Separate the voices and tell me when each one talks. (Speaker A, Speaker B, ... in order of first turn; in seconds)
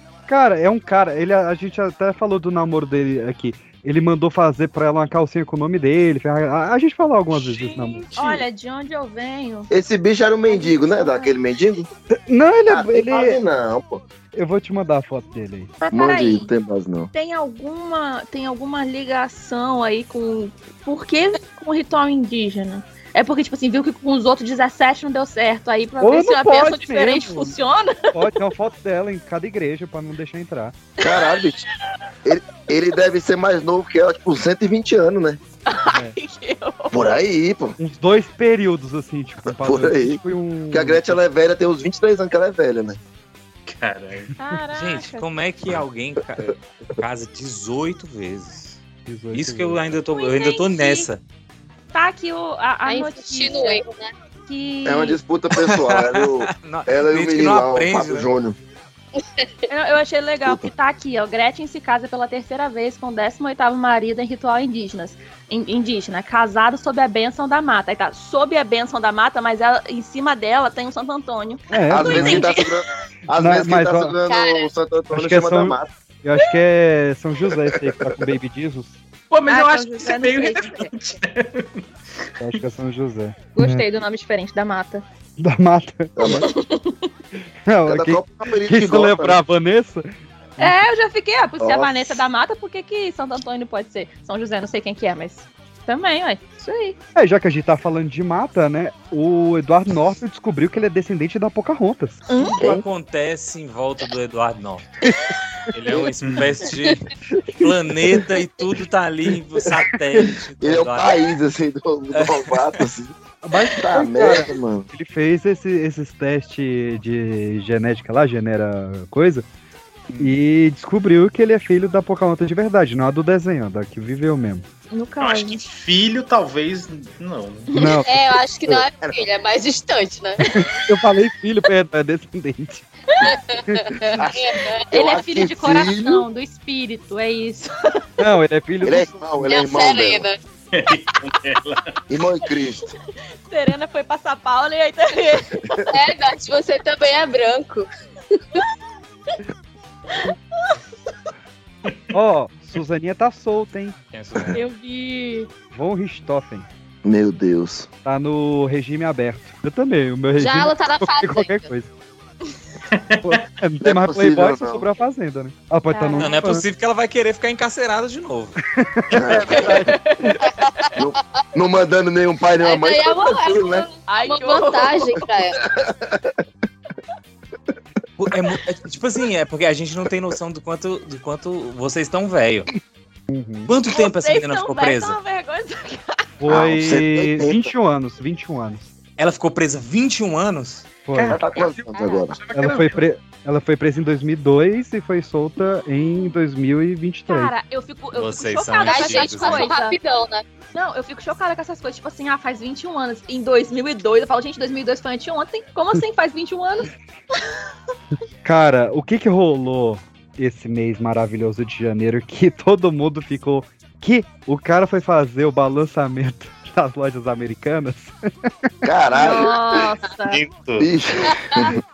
Speaker A: 0.3-8.1, 12.1-13.4, 14.3-15.7, 26.0-27.6, 28.1-30.8, 35.9-36.1, 37.8-41.2, 49.0-50.0, 71.7-72.5, 73.3-74.2, 75.1-79.0, 82.4-83.8, 85.4-86.5, 87.7-90.8, 97.1-102.2, 113.4-119.4, 120.2-124.6, 127.7-128.3, 130.5-132.8, 133.7-133.9, 138.2-139.2, 152.1-153.9, 155.7-156.7, 158.0-161.9, 163.2-166.6, 168.7-170.0, 183.3-183.7, 186.4-188.9, 191.1-191.4, 192.5-197.5, 208.4-218.1
Speaker B: 7.6-9.7, 10.5-11.3, 15.8-16.5, 17.1-28.1, 31.0-31.4, 35.7-37.1, 44.4-45.2, 50.1-51.1, 51.9-53.8, 54.5-55.2, 59.7-72.7, 79.5-80.9, 83.5-85.0, 86.4-87.1, 90.6-97.0, 102.3-102.5, 124.9-125.6, 127.7-128.0, 134.9-137.7, 143.5-145.7, 150.1-150.8, 154.5-155.5, 165.9-166.3, 169.6-170.9, 174.1-175.2, 183.9-186.2, 197.3-199.9, 200.7-206.9, 219.1-220.4
Speaker C: 9.7-11.9, 12.7-14.0, 15.9-17.1, 31.0-31.7, 32.2-35.4, 36.9-37.8, 39.5-40.2, 40.7-43.0, 54.8-58.6, 71.9-75.9, 77.5-78.2, 86.2-86.5, 87.8-89.4, 91.6-92.2, 102.6-102.8, 110.6-113.1, 113.7-114.9, 128.9-129.2, 134.2-136.2, 138.8-140.2, 142.1-142.9, 157.0-157.9, 163.8-164.9, 169.1-169.8, 170.9-173.9, 175.6-176.3, 186.4-187.7, 191.2-192.4, 218.8-219.5, 220.8-221.8
Speaker D: 43.6-44.3, 79.3-81.8, 125.2-127.7, 140.7-141.9, 162.9-163.4, 191.2-193.0, 220.3-220.9
Speaker E: 44.7-48.8, 49.3-51.2, 55.5-58.3, 102.4-104.9, 105.7-107.1, 107.6-111.2, 112.1-112.9, 154.1-154.6, 166.2-168.6, 178.2-182.7, 183.7-185.2, 189.2-190.8, 198.1-199.7
Speaker F: 52.9-54.1, 74.3-74.7, 128.1-130.5, 133.2-134.9, 139.5-140.4, 145.9-147.8, 160.4-161.7, 172.6-175.6, 198.8-200.4